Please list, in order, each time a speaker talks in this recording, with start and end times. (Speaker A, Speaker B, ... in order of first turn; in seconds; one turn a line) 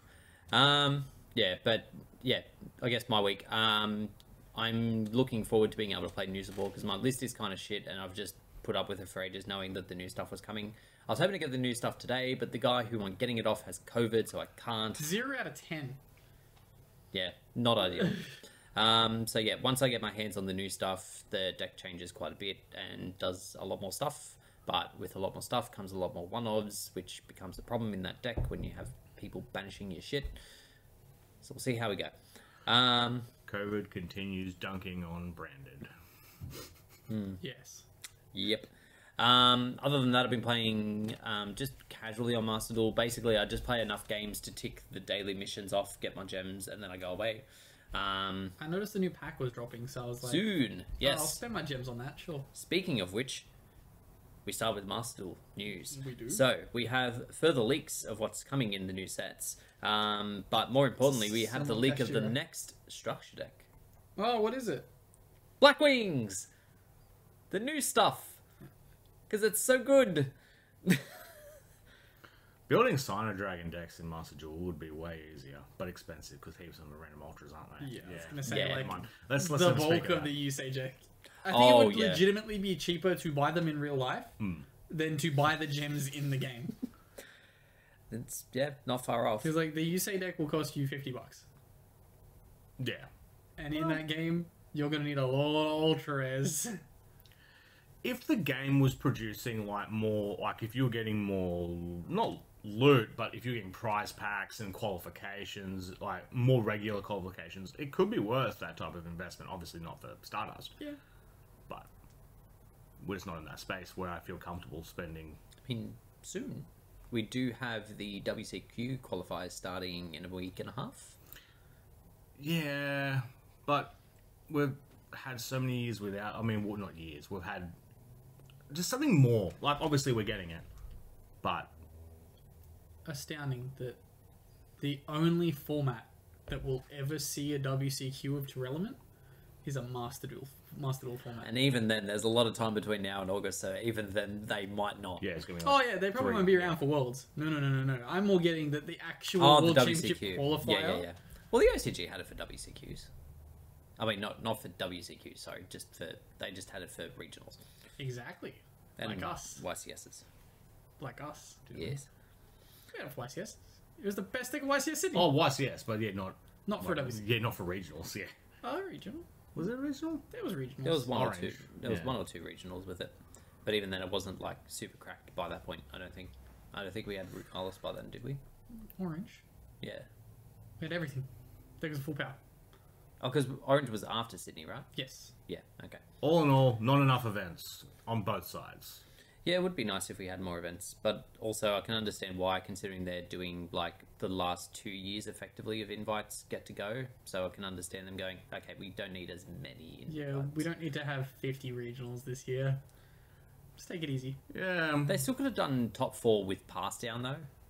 Speaker A: 0.5-15.1
Speaker B: 15.0-16.0
Speaker A: 17.1-30.4
Speaker A: 31.4-33.3
Speaker C: 33.5-35.9
Speaker A: 37.1-37.4
Speaker B: 37.4-37.9
Speaker A: 38.3-48.5
Speaker B: 48.6-52.5
Speaker A: 50.2-51.4
Speaker A: 52.5-53.5
Speaker A: 54.4-63.7
Speaker B: 55.9-56.4
Speaker B: 61.1-62.3
Speaker B: 64.2-64.9
Speaker A: 65.6-66.5
Speaker A: 67.5-68.4
Speaker A: 69.3-70.3
Speaker A: 70.8-71.2
Speaker C: 72.7-80.3
Speaker B: 77.8-84.3
Speaker A: 78.4-78.9
Speaker A: 81.5-82.3
Speaker C: 84.4-84.7
Speaker B: 84.9-86.7
Speaker A: 88.1-89.5
Speaker B: 89.4-91.5
Speaker C: 92.8-93.1
Speaker B: 93.6-96.8
Speaker C: 93.7-94.0
Speaker C: 98.0-110.7
Speaker C: 113.0-115.4
Speaker A: 115.6-121.2
Speaker C: 122.4-124.0
Speaker C: 124.5-127.8
Speaker C: 128.7-130.7
Speaker C: 131.4-131.7
Speaker B: 133.0-134.0
Speaker B: 134.8-139.0
Speaker B: 139.6-141.5
Speaker A: 141.4-145.2
Speaker C: 145.2-146.8
Speaker B: 145.6-151.1
Speaker A: 149.4-153.1
Speaker A: 154.0-157.6
Speaker B: 158.0-159.6
Speaker A: 159.0-160.2
Speaker B: 161.0-161.7
Speaker A: 161.7-162.1
Speaker B: 162.9-165.3
Speaker C: 165.1-168.3
Speaker B: 166.7-167.2
Speaker B: 168.6-169.3
Speaker C: 169.5-170.2
Speaker B: 170.3-171.1
Speaker A: 170.8-173.1
Speaker C: 171.1-172.2
Speaker A: 173.7-178.4
Speaker B: 178.8-179.4
Speaker A: 179.8-180.1
Speaker B: 180.8-181.3
Speaker B: 181.8-182.4
Speaker A: 183.2-184.9
Speaker B: 184.9-185.3
Speaker A: 185.5-186.0
Speaker C: 186.2-189.0
Speaker A: 189.4-200.7
Speaker B: 200.1-202.8
Speaker B: 203.8-204.4
Speaker C: 204.5-205.2
Speaker A: 205.1-207.5